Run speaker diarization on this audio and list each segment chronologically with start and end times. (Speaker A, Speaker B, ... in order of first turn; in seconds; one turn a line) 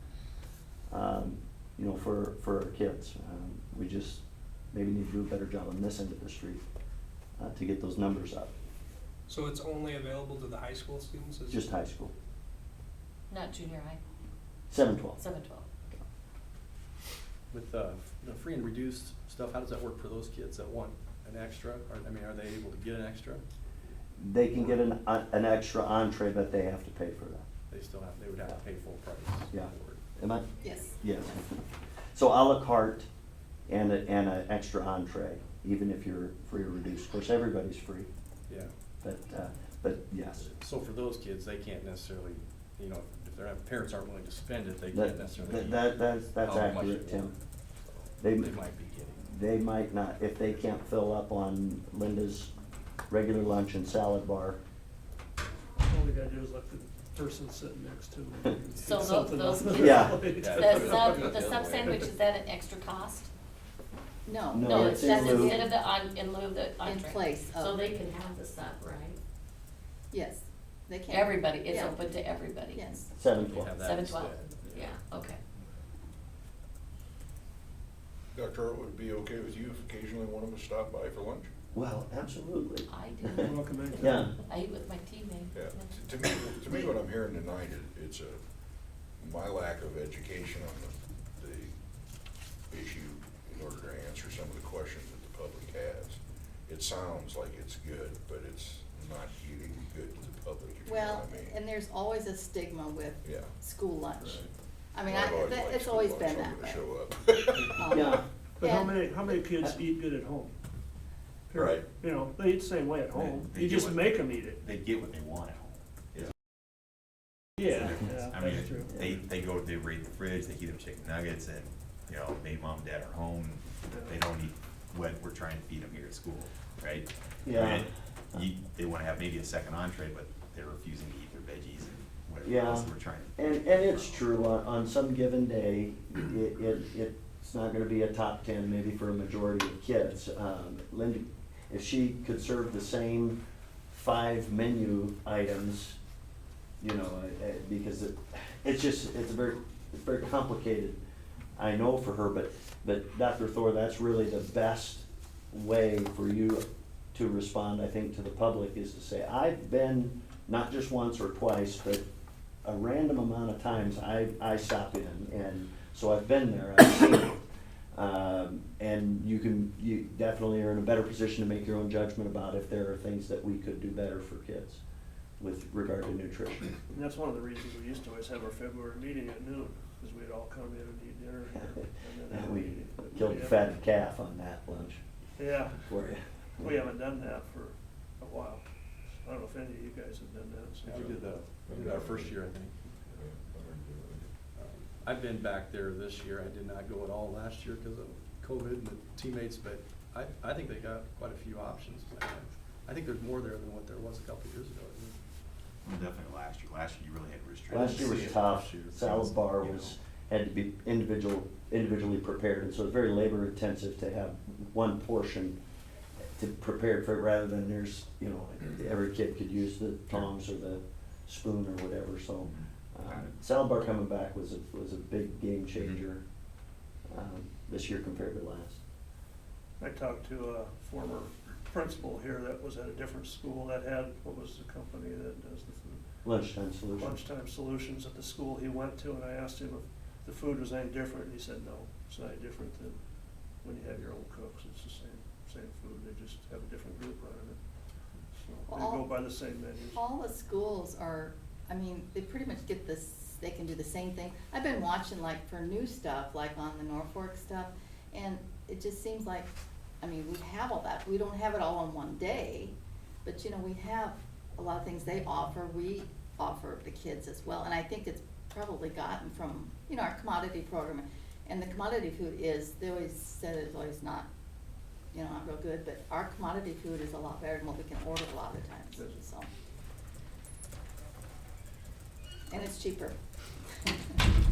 Speaker A: 0.9-6.6
Speaker A: 7.4-8.5
Speaker B: 9.3-11.6
Speaker A: 11.5-12.1
Speaker C: 13.3-14.0
Speaker A: 14.7-15.2
Speaker C: 15.2-15.6
Speaker D: 17.5-23.4
Speaker A: 24.2-27.4
Speaker D: 27.7-30.0
Speaker A: 29.5-30.4
Speaker E: 30.6-31.0
Speaker A: 31.0-31.6
Speaker A: 32.1-33.1
Speaker A: 33.7-38.1
Speaker D: 38.5-38.7
Speaker A: 39.0-40.5
Speaker D: 40.5-49.2
Speaker A: 44.9-47.3
Speaker A: 48.2-48.5
Speaker A: 49.2-52.5
Speaker A: 53.1-54.6
Speaker F: 55.8-61.3
Speaker C: 58.8-63.3
Speaker A: 59.7-60.3
Speaker D: 60.4-62.0
Speaker E: 64.2-65.8
Speaker A: 64.5-65.6
Speaker C: 64.7-69.2
Speaker E: 66.8-68.1
Speaker E: 70.1-73.0
Speaker C: 71.1-72.8
Speaker A: 73.1-73.8
Speaker D: 73.4-74.9
Speaker C: 73.8-75.4
Speaker G: 78.3-81.5
Speaker A: 81.7-84.3
Speaker C: 82.9-83.5
Speaker F: 83.4-84.2
Speaker C: 84.5-86.9
Speaker G: 85.5-88.4
Speaker G: 89.2-91.7
Speaker G: 92.7-101.5
Speaker E: 100.8-106.9
Speaker G: 103.2-103.5
Speaker F: 104.2-104.5
Speaker G: 105.0-108.1
Speaker E: 107.5-109.4
Speaker A: 107.9-108.2
Speaker F: 108.6-110.5
Speaker F: 111.5-114.6
Speaker G: 111.5-111.9
Speaker H: 113.1-116.3
Speaker F: 117.6-118.9
Speaker H: 117.6-134.2
Speaker F: 123.9-124.2
Speaker A: 127.4-128.4
Speaker A: 132.4-146.0
Speaker A: 146.8-151.0
Speaker A: 151.6-162.0
Speaker A: 162.6-167.4
Speaker A: 167.9-174.8
Speaker A: 175.4-176.8
Speaker F: 176.9-183.6
Speaker A: 181.5-185.0
Speaker F: 185.4-185.9
Speaker A: 185.8-186.9
Speaker F: 186.6-188.6
Speaker F: 189.2-191.2
Speaker D: 190.8-192.9
Speaker G: 191.7-192.3
Speaker G: 193.1-194.3
Speaker D: 194.5-205.2
Speaker H: 205.8-209.9
Speaker A: 207.7-215.6
Speaker A: 216.3-226.2
Speaker H: 222.4-223.3
Speaker A: 227.1-228.8
Speaker F: 229.8-236.0
Speaker A: 236.2-237.2
Speaker F: 236.9-243.0
Speaker F: 243.6-247.6
Speaker F: 248.3-250.0
Speaker E: 248.7-249.1
Speaker E: 249.9-259.5
Speaker E: 260.0-274.3
Speaker E: 275.1-279.5
Speaker F: 278.9-279.2
Speaker E: 282.5-283.2
Speaker E: 283.8-284.2